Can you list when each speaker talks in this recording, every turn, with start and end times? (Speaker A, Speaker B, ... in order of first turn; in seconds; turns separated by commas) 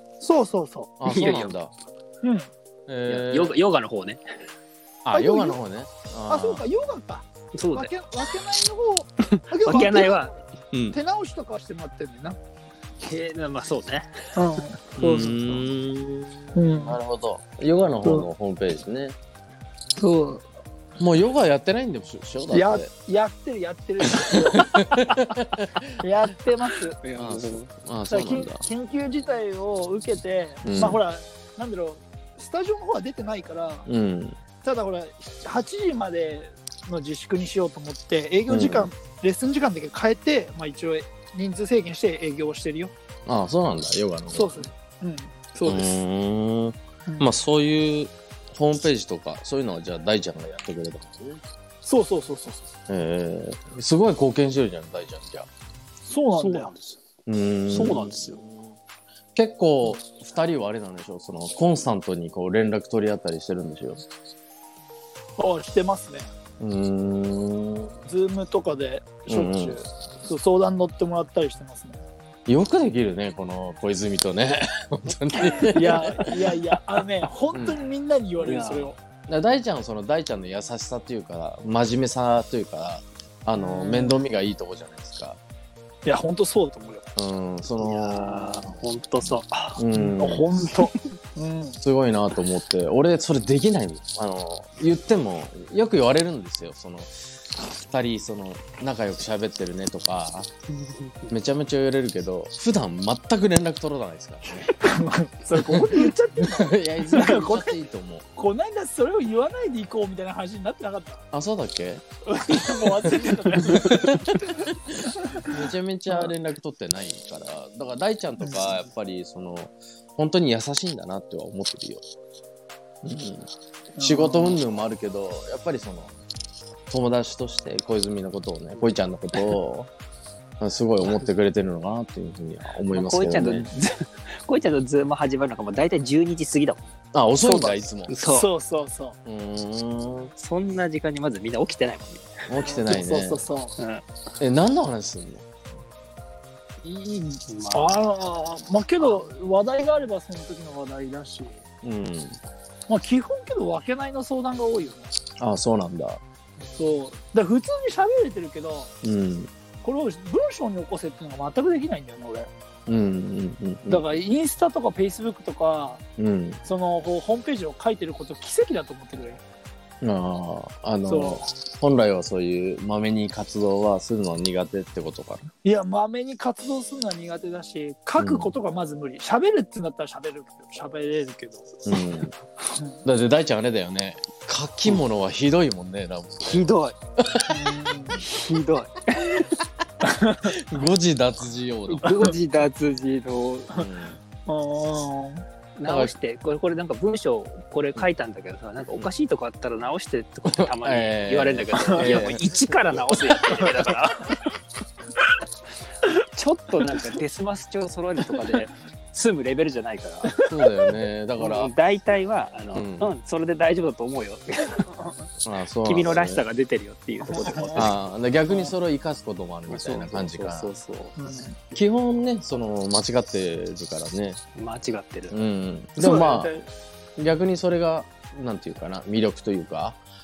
Speaker A: 0.2-0.9, Speaker B: 1.0-1.7, Speaker C: 1.1-1.5, Speaker A: 2.2-2.5, Speaker B: 2.9-3.6, Speaker C: 3.1-4.2, Speaker B: 5.0-6.6, Speaker A: 5.1-5.6, Speaker A: 6.3-10.3, Speaker C: 7.5-7.9, Speaker C: 9.7-10.3, Speaker B: 10.7-11.0, Speaker A: 10.9-12.4, Speaker C: 13.0-14.3, Speaker A: 14.3-15.5, Speaker B: 15.0-19.2, Speaker A: 16.6-17.0, Speaker A: 20.0-20.4, Speaker B: 21.0-22.9, Speaker A: 22.5-25.1, Speaker B: 24.2-26.0, Speaker A: 26.0-27.0, Speaker C: 27.0-27.7, Speaker B: 27.2-28.6, Speaker A: 28.1-33.9, Speaker B: 30.6-31.0, Speaker B: 33.9-34.4, Speaker A: 34.6-42.9, Speaker B: 38.5-38.9, Speaker B: 43.3-44.7, Speaker A: 44.3-46.0, Speaker B: 45.6-51.4, Speaker A: 47.1-47.3, Speaker A: 51.8-52.7, Speaker B: 52.9-55.5, Speaker A: 56.1-56.7, Speaker C: 56.3-57.0, Speaker B: 57.3-58.5, Speaker C: 57.7-58.4, Speaker B: 59.4-64.0, Speaker A: 65.4-66.3, Speaker B: 66.6-67.9, Speaker A: 68.0-72.0, Speaker B: 69.3-69.8, Speaker B: 72.5-76.5, Speaker A: 75.4-79.0, Speaker B: 77.5-77.8, Speaker C: 78.4-78.9, Speaker B: 79.3-85.4, Speaker A: 83.5-84.2, Speaker A: 86.0-87.1, Speaker B: 87.2-88.8, Speaker C: 87.8-89.8, Speaker B: 89.8-90.5, Speaker A: 89.9-91.8, Speaker B: 91.8-97.2, Speaker B: 97.7-100.5, Speaker C: 100.7-101.3, Speaker B: 101.3-104.7, Speaker A: 104.8-107.8, Speaker B: 105.5-108.3, Speaker A: 108.3-111.2, Speaker B: 111.3-122.0, Speaker A: 112.3-115.5, Speaker B: 123.0-126.2, Speaker A: 124.0-124.6, Speaker B: 126.9-129.9, Speaker B: 130.6-133.7, Speaker C: 132.9-138.5, Speaker B: 137.1-138.1, Speaker A: 138.2-139.2, Speaker B: 139.2-140.3, Speaker C: 140.4-142.5, Speaker B: 142.5-143.4, Speaker A: 142.6-143.8, Speaker C: 143.8-144.0, Speaker B: 144.4-145.5, Speaker A: 146.8-151.6, Speaker C: 147.5-147.9, Speaker B: 151.8-152.4, Speaker A: 152.9-155.1, Speaker B: 155.4-156.2, Speaker A: 156.8-158.9, Speaker B: 159.0-159.5, Speaker A: 159.8-162.5, Speaker B: 162.9-164.1, Speaker A: 163.9-166.0, Speaker B: 166.2-166.6, Speaker A: 166.6-169.4, Speaker B: 170.0-175.5, Speaker A: 171.1-171.4, Speaker A: 175.6-181.8, Speaker B: 178.2-178.5, Speaker B: 181.8-182.3, Speaker A: 182.7-183.0, Speaker B: 183.1-186.7, Speaker C: 186.4-186.9, Speaker B: 187.2-187.7, Speaker A: 187.5-188.2, Speaker C: 188.2-189.6, Speaker A: 190.0-190.6, Speaker B: 190.4-192.3, Speaker C: 191.9-193.9, Speaker B: 193.7-194.2, Speaker A: 194.5-195.5, Speaker C: 195.8-204.4, Speaker B: 195.8-196.1, Speaker B: 200.5-203.7, Speaker A: 201.9-202.1, Speaker C: 206.1-210.4, Speaker B: 210.4-211.7, Speaker C: 211.4-214.9, Speaker B: 212.7-213.1, Speaker B: 215.4-216.4, Speaker C: 215.8-218.0, Speaker A: 217.2-217.9, Speaker B: 217.8-220.7, Speaker C: 219.7-221.2, Speaker A: 221.2-221.6, Speaker B: 221.7-224.4, Speaker C: 224.6-225.4, Speaker B: 225.3-226.5, Speaker A: 226.0-226.7, Speaker B: 227.2-230.0